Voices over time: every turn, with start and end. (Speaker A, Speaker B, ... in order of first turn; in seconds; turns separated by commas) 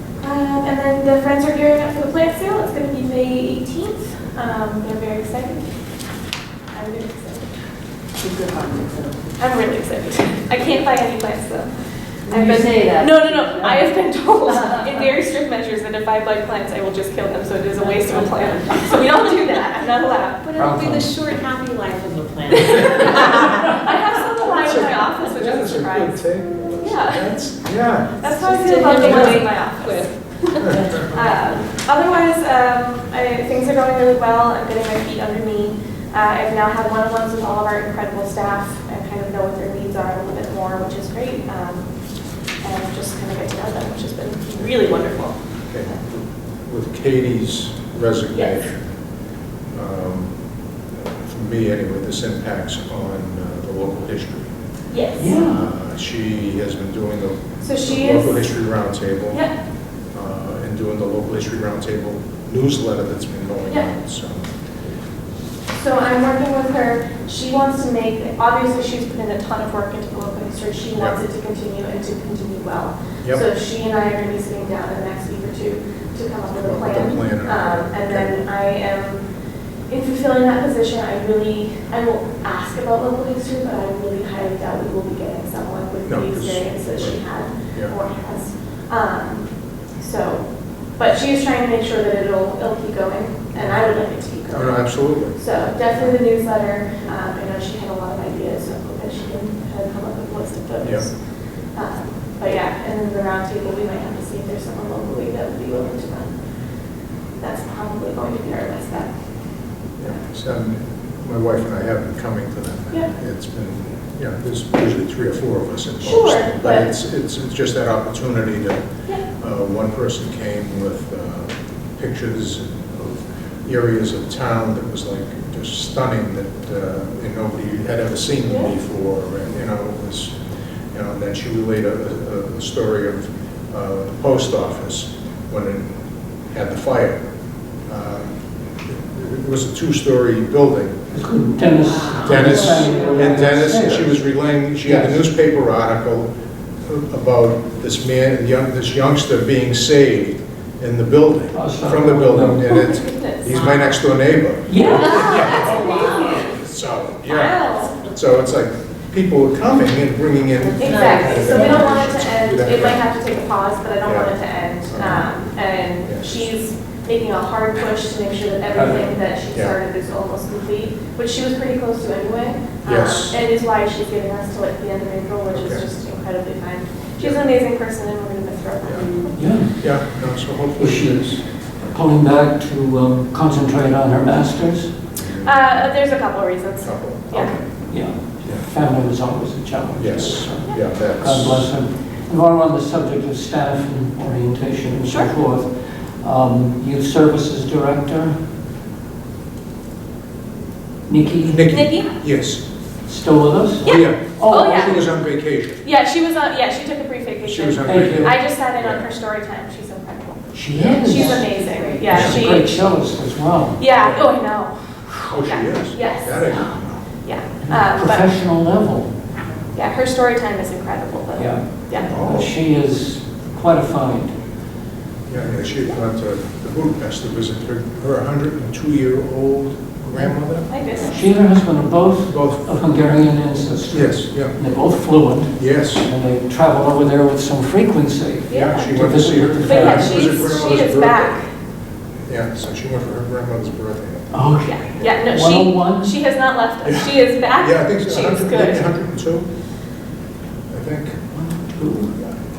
Speaker A: 0.2-5.8, Speaker A: 6.7-7.5, Speaker B: 8.2-9.3, Speaker A: 9.4-11.7, Speaker B: 12.3-13.8, Speaker A: 12.3-20.4, Speaker B: 14.5-14.9, Speaker B: 17.8-19.3, Speaker B: 20.4-23.9, Speaker C: 20.6-21.1, Speaker A: 22.5-26.2, Speaker D: 24.6-28.2, Speaker A: 26.8-27.4, Speaker A: 28.2-42.0, Speaker B: 28.4-31.3, Speaker A: 42.6-46.0, Speaker D: 45.7-48.8, Speaker A: 48.3-48.6, Speaker D: 49.7-50.3, Speaker D: 51.0-54.5, Speaker A: 54.9-55.4, Speaker C: 55.2-55.6, Speaker D: 55.3-59.5, Speaker A: 57.6-58.5, Speaker D: 60.1-64.5, Speaker A: 65.8-79.3, Speaker D: 76.6-78.3, Speaker A: 79.9-101.2, Speaker D: 86.1-88.0, Speaker D: 93.6-93.8, Speaker D: 94.5-95.4, Speaker D: 95.9-96.2, Speaker D: 100.8-101.1, Speaker A: 101.7-106.4, Speaker A: 107.4-109.1, Speaker D: 110.0-130.3, Speaker A: 116.0-116.9, Speaker A: 128.5-128.8, Speaker D: 130.9-135.9, Speaker D: 136.5-137.2, Speaker D: 137.9-141.0, Speaker C: 141.1-144.2, Speaker B: 141.8-143.3, Speaker D: 142.1-146.3, Speaker C: 144.8-145.2, Speaker D: 146.8-163.0, Speaker C: 151.5-152.7, Speaker A: 152.7-153.9, Speaker C: 154.7-155.6, Speaker A: 155.1-156.5, Speaker B: 155.2-156.5, Speaker A: 157.3-158.0, Speaker A: 160.8-179.4, Speaker B: 160.8-161.9, Speaker D: 164.0-164.3, Speaker D: 164.9-165.3, Speaker D: 166.1-166.5, Speaker C: 168.7-169.1, Speaker D: 172.8-173.4, Speaker D: 175.5-175.8, Speaker D: 178.8-181.4, Speaker B: 179.0-179.3, Speaker C: 179.4-180.2, Speaker C: 180.8-185.0, Speaker D: 185.2-185.9, Speaker A: 185.4-187.6, Speaker D: 186.8-187.6, Speaker C: 187.4-198.4, Speaker D: 189.9-191.7, Speaker A: 195.1-195.3, Speaker C: 201.1-201.7, Speaker D: 201.4-202.6, Speaker A: 201.7-202.1, Speaker C: 203.1-205.0, Speaker A: 203.8-205.0, Speaker D: 203.8-205.8, Speaker A: 205.8-212.8, Speaker D: 207.4-209.0, Speaker C: 207.8-208.3, Speaker C: 210.5-211.5, Speaker D: 210.7-211.0, Speaker B: 211.1-212.3, Speaker C: 212.1-213.8, Speaker D: 212.1-212.4, Speaker A: 213.8-216.6, Speaker D: 213.9-214.3, Speaker D: 215.3-217.1, Speaker A: 217.2-218.3, Speaker C: 217.7-219.1, Speaker A: 219.7-222.1, Speaker C: 221.4-224.3, Speaker D: 222.0-222.5, Speaker D: 225.3-230.7, Speaker A: 230.7-231.2, Speaker C: 231.1-240.4, Speaker D: 232.3-232.7, Speaker D: 233.9-234.6, Speaker D: 235.6-236.1, Speaker A: 238.5-239.1, Speaker D: 238.5-241.4, Speaker A: 239.6-241.5, Speaker D: 242.3-245.2, Speaker C: 244.3-246.1, Speaker A: 244.6-248.9, Speaker D: 246.9-249.5, Speaker D: 250.7-251.2, Speaker C: 251.3-252.1